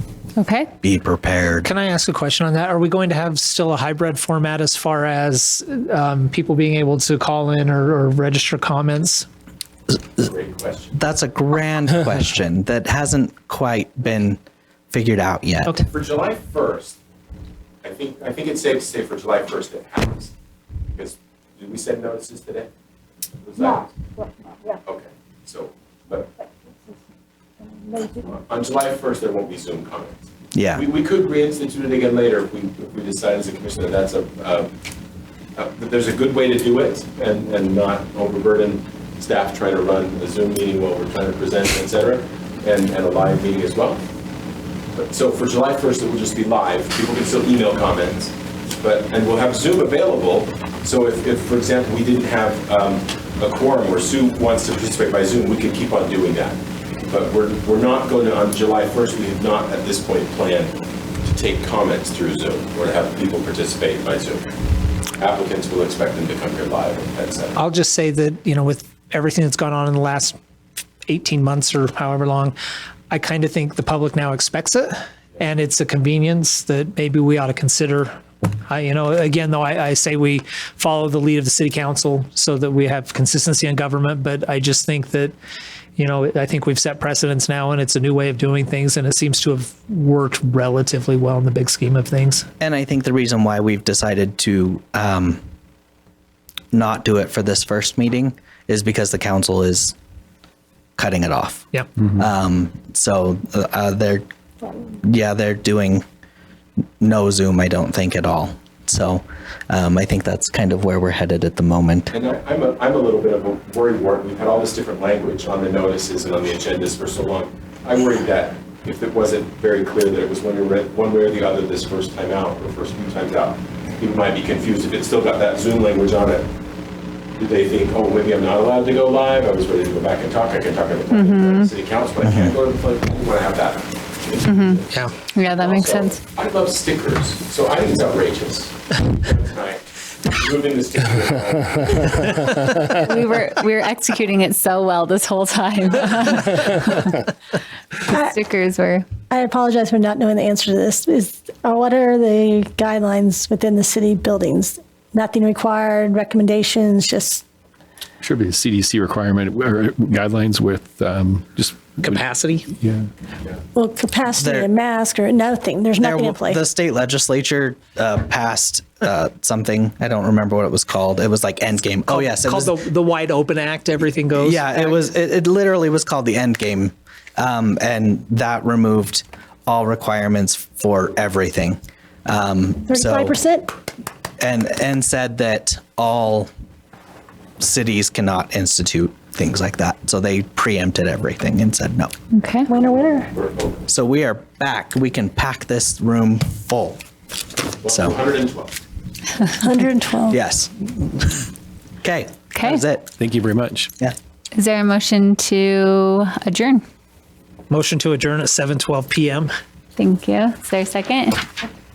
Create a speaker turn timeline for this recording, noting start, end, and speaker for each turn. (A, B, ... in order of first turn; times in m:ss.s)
0:00.4-0:00.7 A
0:00.8-0:01.7 B
0:01.6-0:09.3 C
0:10.2-0:11.0 D
0:11.0-0:14.4 B
0:14.9-0:15.8 B
0:15.9-0:17.0 D
0:17.8-0:20.3 D
0:20.9-0:22.7 D
0:23.4-0:24.0 D
0:24.8-0:26.3 D
0:27.9-0:34.7 D
0:30.5-0:30.8 B
0:35.6-0:44.0 D
0:45.0-1:04.5 D
1:05.2-1:07.6 D
1:07.6-1:10.4 C
1:11.1-1:12.6 C
1:13.1-1:18.1 C
1:18.7-1:25.4 C
1:26.0-1:32.5 C
1:32.6-1:35.4 B
1:36.7-1:40.0 B
1:41.0-1:44.2 B
1:45.0-1:46.0 B
1:47.0-1:52.1 B
1:52.1-2:06.5 D
2:07.4-2:22.6 D
2:11.1-2:11.7 A
2:12.2-2:12.6 B
2:14.4-2:16.2 A
2:14.9-2:15.2 C
2:22.9-2:27.2 A
2:28.2-2:29.1 A
2:29.3-2:37.4 E
2:38.2-2:43.1 F
2:42.0-2:42.7 C
2:43.8-2:46.6 E
2:44.4-2:44.7 B
2:46.0-2:52.7 B
2:52.1-2:55.0 C
2:54.4-3:03.4 B
3:02.9-3:03.7 E
3:04.4-3:06.5 B
3:07.6-3:12.1 B
3:12.3-3:12.7 A
3:12.7-3:13.3 E
3:12.9-3:13.8 D
3:13.9-3:17.0 B
3:17.8-3:18.8 D
3:17.9-3:18.2 B
3:19.6-3:20.4 E
3:20.3-3:21.5 B
3:22.0-3:23.1 B
3:22.5-3:22.8 A
3:23.2-3:23.9 F
3:24.6-3:26.8 A
3:27.7-3:29.5 C
3:30.0-3:31.4 A